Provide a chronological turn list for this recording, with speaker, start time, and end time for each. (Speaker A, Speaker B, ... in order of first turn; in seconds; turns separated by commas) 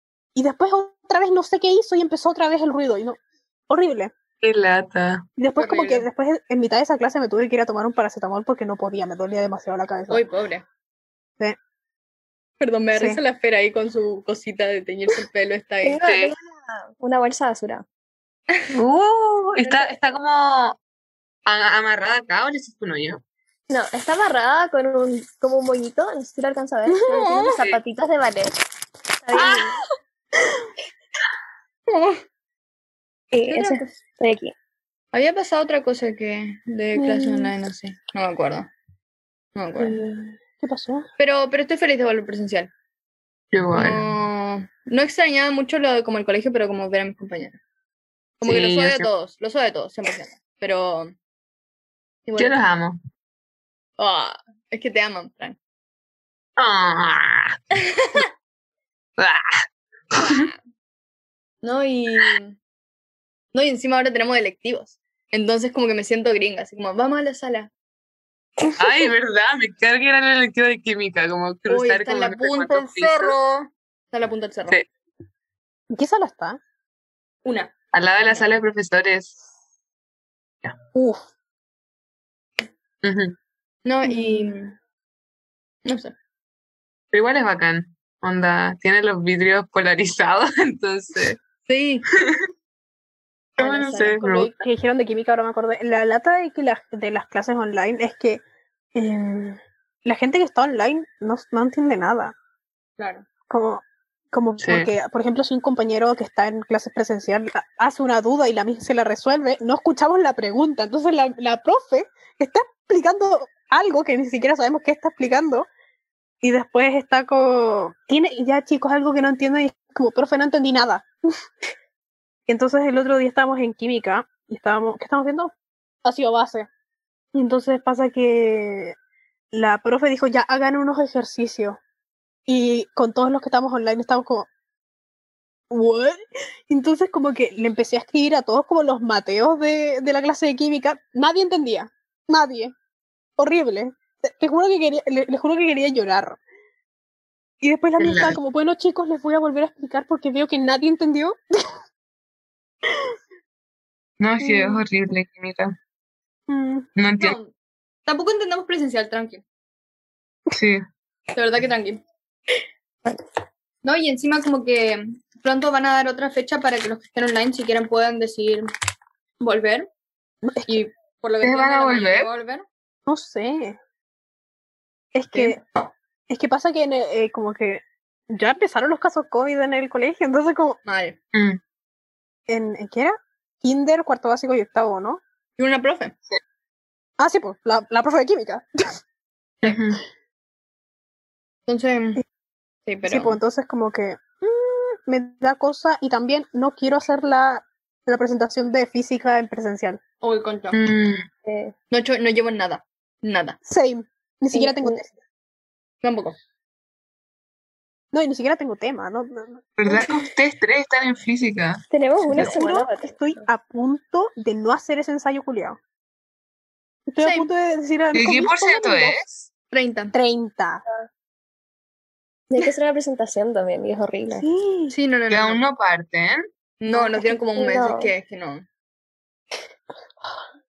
Speaker A: 0.3-4.1, Speaker B: 4.4-5.2, Speaker A: 5.4-10.2, Speaker C: 5.6-6.1, Speaker C: 10.1-10.7, Speaker C: 12.6-16.0, Speaker A: 12.9-13.2, Speaker D: 15.8-17.8, Speaker B: 16.0-16.3, Speaker B: 18.7-20.8, Speaker B: 21.4-23.2, Speaker D: 23.7-28.6, Speaker C: 27.1-27.8, Speaker D: 29.2-29.8, Speaker C: 31.9-32.2, Speaker D: 33.3-34.5, Speaker C: 33.5-34.0, Speaker C: 35.1-38.7, Speaker A: 36.9-37.5, Speaker C: 39.5-40.0, Speaker A: 39.8-41.1, Speaker C: 41.2-42.7, Speaker B: 43.5-44.1, Speaker C: 43.7-47.6, Speaker C: 48.4-51.1, Speaker B: 48.4-49.0, Speaker C: 52.3-52.6, Speaker B: 52.4-53.0, Speaker C: 54.0-55.6, Speaker B: 56.6-57.6, Speaker C: 58.0-58.2, Speaker B: 59.2-59.4, Speaker B: 60.2-60.5, Speaker C: 61.6-62.6, Speaker C: 63.5-67.7, Speaker B: 68.8-73.4, Speaker C: 71.7-73.6, Speaker C: 74.1-74.8, Speaker A: 75.9-76.6, Speaker C: 77.4-77.7, Speaker B: 77.9-79.3, Speaker A: 80.9-81.2, Speaker B: 83.0-83.3, Speaker C: 83.8-84.7, Speaker A: 84.1-84.5, Speaker C: 85.8-86.1, Speaker B: 87.1-91.4, Speaker C: 91.7-92.0, Speaker C: 93.6-94.2, Speaker B: 93.6-94.6, Speaker A: 93.9-98.4, Speaker A: 98.9-102.3, Speaker C: 103.0-103.2, Speaker A: 103.5-115.7, Speaker B: 104.6-104.9, Speaker A: 116.4-121.1, Speaker A: 122.5-125.5, Speaker A: 126.0-126.7, Speaker A: 127.3-128.9, Speaker A: 129.5-131.8, Speaker A: 132.5-134.5, Speaker A: 135.7-142.7, Speaker A: 143.4-146.4, Speaker A: 147.6-151.7, Speaker B: 148.0-148.4, Speaker B: 154.2-155.7, Speaker A: 154.4-154.8, Speaker A: 156.5-156.8, Speaker B: 157.0-157.4, Speaker C: 157.2-157.5, Speaker C: 158.1-159.4, Speaker B: 160.5-160.8, Speaker C: 161.3-162.0, Speaker C: 163.8-168.7, Speaker C: 169.4-169.9, Speaker A: 170.4-170.8, Speaker C: 170.7-172.7, Speaker B: 171.4-172.3, Speaker A: 173.1-173.8, Speaker A: 175.1-175.6, Speaker C: 175.3-175.6, Speaker A: 176.3-180.8, Speaker C: 180.8-181.2, Speaker B: 181.3-181.6, Speaker A: 182.5-185.2, Speaker C: 185.6-186.1, Speaker A: 187.2-188.7, Speaker B: 189.6-190.0, Speaker C: 191.7-192.2, Speaker C: 192.8-193.4, Speaker A: 193.1-200.0, Speaker C: 200.2-200.8, Speaker B: 200.7-201.2, Speaker D: 201.4-201.7, Speaker C: 201.9-203.6, Speaker A: 203.6-205.1, Speaker D: 204.5-205.0, Speaker C: 206.0-206.3, Speaker A: 208.1-210.2, Speaker B: 209.8-212.6, Speaker D: 211.9-213.4, Speaker A: 212.2-215.8, Speaker A: 217.1-219.2, Speaker C: 217.2-217.5, Speaker B: 218.1-219.5, Speaker C: 219.7-220.1, Speaker A: 220.1-220.8, Speaker D: 222.5-224.5, Speaker A: 224.3-224.9, Speaker C: 224.9-225.6, Speaker B: 225.3-226.4, Speaker C: 226.8-228.6, Speaker A: 226.9-227.4, Speaker D: 227.6-228.1